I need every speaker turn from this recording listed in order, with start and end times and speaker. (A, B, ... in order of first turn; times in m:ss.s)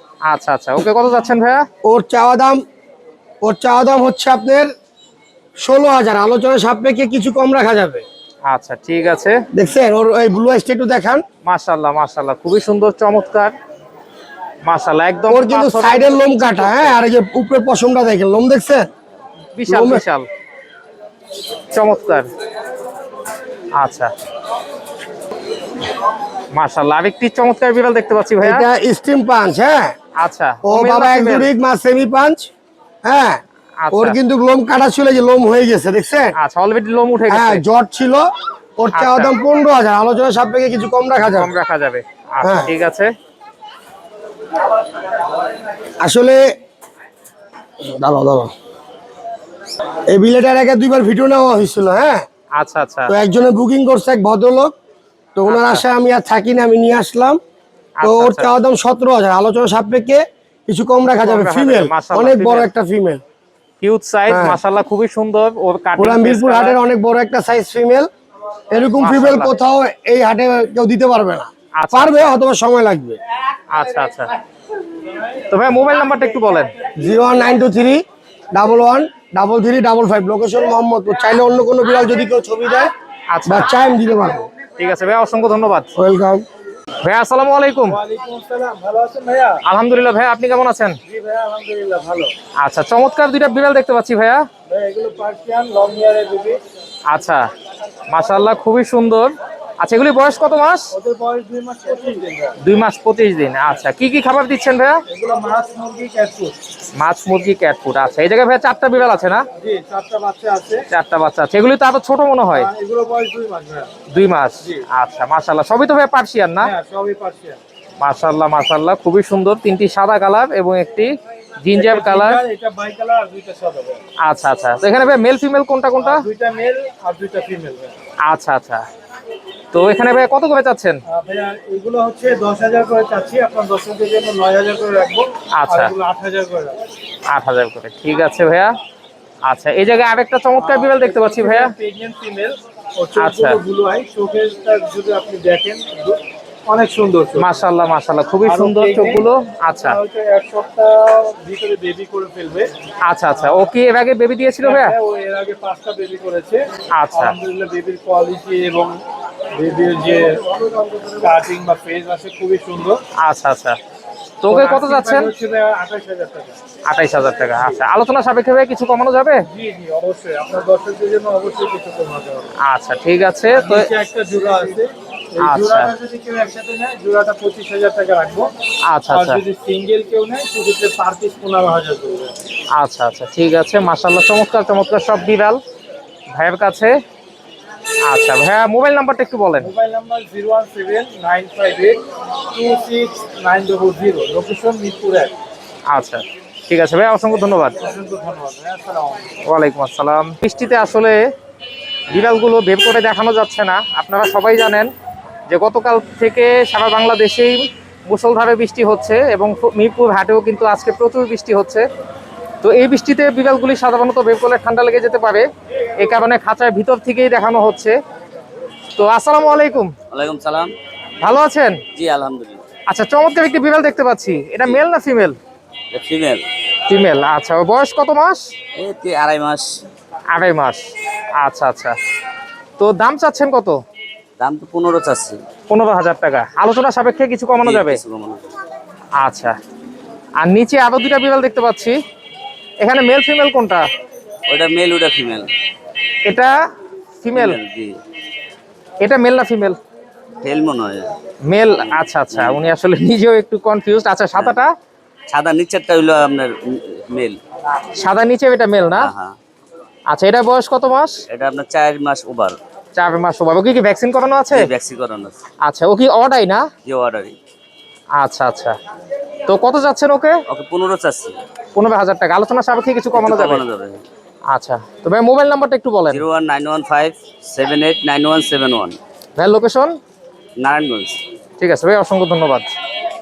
0:00.2-0:01.6 A
0:01.8-0:02.6 B
0:03.4-0:04.7 B
0:05.6-0:08.0 B
0:08.4-0:09.4 A
0:09.5-0:11.2 B
0:11.4-0:13.5 A
0:14.6-0:17.0 A
0:15.3-0:18.8 B
0:19.5-0:20.3 A
0:19.7-0:20.0 B
0:21.7-0:22.3 A
0:23.7-0:24.1 A
0:26.5-0:28.6 A
0:28.4-0:29.9 B
0:30.2-0:31.5 A
0:30.6-0:32.5 B
0:33.0-0:33.4 B
0:33.8-0:34.2 A
0:33.9-0:36.3 B
0:36.4-0:37.6 A
0:37.3-0:38.3 B
0:38.8-0:41.5 B
0:38.9-0:39.3 A
0:41.3-0:43.1 A
0:42.4-0:42.7 B
0:46.0-0:46.4 B
0:47.8-0:48.5 B
0:50.1-0:52.2 B
0:52.6-0:53.1 A
0:53.1-0:54.7 B
0:55.3-0:57.4 B
0:55.5-0:55.8 A
0:58.0-0:58.5 A
0:58.0-1:03.2 B
1:01.0-1:02.7 A
1:03.8-1:06.8 A
1:04.3-1:04.6 B
1:06.0-1:08.1 B
1:08.7-1:13.2 B
1:09.0-1:09.5 A
1:11.8-1:12.3 A
1:13.7-1:14.3 A
1:15.5-1:16.7 A
1:17.0-1:22.9 B
1:23.3-1:23.7 A
1:23.5-1:24.4 B
1:24.8-1:25.9 A
1:26.0-1:26.4 B
1:27.0-1:28.0 A
1:27.8-1:29.6 C
1:29.6-1:31.0 A
1:31.1-1:32.3 C
1:32.6-1:34.4 A
1:34.7-1:36.6 C
1:37.1-1:37.4 A
1:38.1-1:40.9 A
1:40.9-1:42.6 C
1:42.6-1:45.0 A
1:45.1-1:46.5 C
1:47.0-1:49.4 A
1:49.6-1:50.8 C
1:50.9-1:52.7 A
1:52.5-1:53.9 C
1:54.1-1:56.7 A
1:56.6-1:57.6 C
1:58.0-2:02.4 A
2:01.7-2:04.0 C
2:04.2-2:06.3 A
2:06.0-2:07.9 C
2:08.2-2:08.8 A
2:09.7-2:11.0 A
2:11.1-2:16.8 C
2:15.6-2:15.9 A
2:17.3-2:18.7 A
2:19.4-2:21.7 A
2:20.6-2:27.6 C
2:23.2-2:23.6 A
2:27.4-2:30.0 A
2:28.4-2:32.7 C
2:33.0-2:35.0 A
2:33.4-2:33.7 C
2:34.6-2:39.0 C
2:37.0-2:37.4 A
2:39.6-2:40.4 C
2:41.0-2:43.0 C
2:43.2-2:43.8 A
2:44.4-2:45.3 A
2:44.5-2:46.6 C
2:46.9-2:49.4 A
2:49.5-2:52.5 C
2:52.6-2:53.9 A
2:53.5-2:58.5 C
2:55.4-2:55.9 A
2:58.9-2:59.4 A
2:59.1-3:02.3 C
3:02.7-3:05.6 A
3:06.3-3:07.0 A
3:08.0-3:09.7 A
3:09.6-3:12.0 C
3:12.5-3:15.3 C
3:15.9-3:17.8 A
3:17.8-3:19.3 C
3:19.4-3:21.2 A
3:22.1-3:24.9 A
3:25.5-3:31.8 A
3:32.6-3:35.5 A
3:36.0-3:38.0 A
3:39.0-3:39.9 A
3:40.1-3:40.7 D
3:41.2-3:41.8 A
3:41.9-3:42.6 D
3:42.9-3:45.4 A
3:45.9-3:46.4 D
3:46.9-3:48.4 A
3:48.7-3:49.8 D
3:50.3-3:50.8 A
3:51.4-3:52.0 A
3:52.8-3:53.8 A
3:54.4-3:55.4 D
3:55.7-3:58.0 A
3:57.6-3:58.4 D
3:59.2-3:59.6 A
4:00.4-4:02.0 A
4:02.8-4:03.9 A
4:04.5-4:05.5 D
4:06.2-4:06.5 A
4:07.2-4:07.6 A
4:07.3-4:07.9 D
4:09.0-4:09.8 A
4:10.4-4:11.1 D
4:11.5-4:14.7 A
4:12.3-4:12.6 D
4:14.3-4:14.6 D
4:15.3-4:17.4 D
4:18.0-4:19.1 A
4:19.0-4:19.3 D
4:20.1-4:21.2 A
4:21.3-4:22.6 D
4:22.9-4:24.7 A
4:24.5-4:25.3 D
4:25.6-4:26.7 A
4:26.8-4:27.4 D
4:28.2-4:28.8 A
4:29.5-4:30.4 A
4:30.5-4:31.4 D
4:31.7-4:33.6 A
4:33.1-4:34.0 D
4:34.5-4:36.2 A
4:36.1-4:39.0 D
4:39.4-4:40.0 A
4:40.6-4:41.2 D
4:41.6-4:42.7 A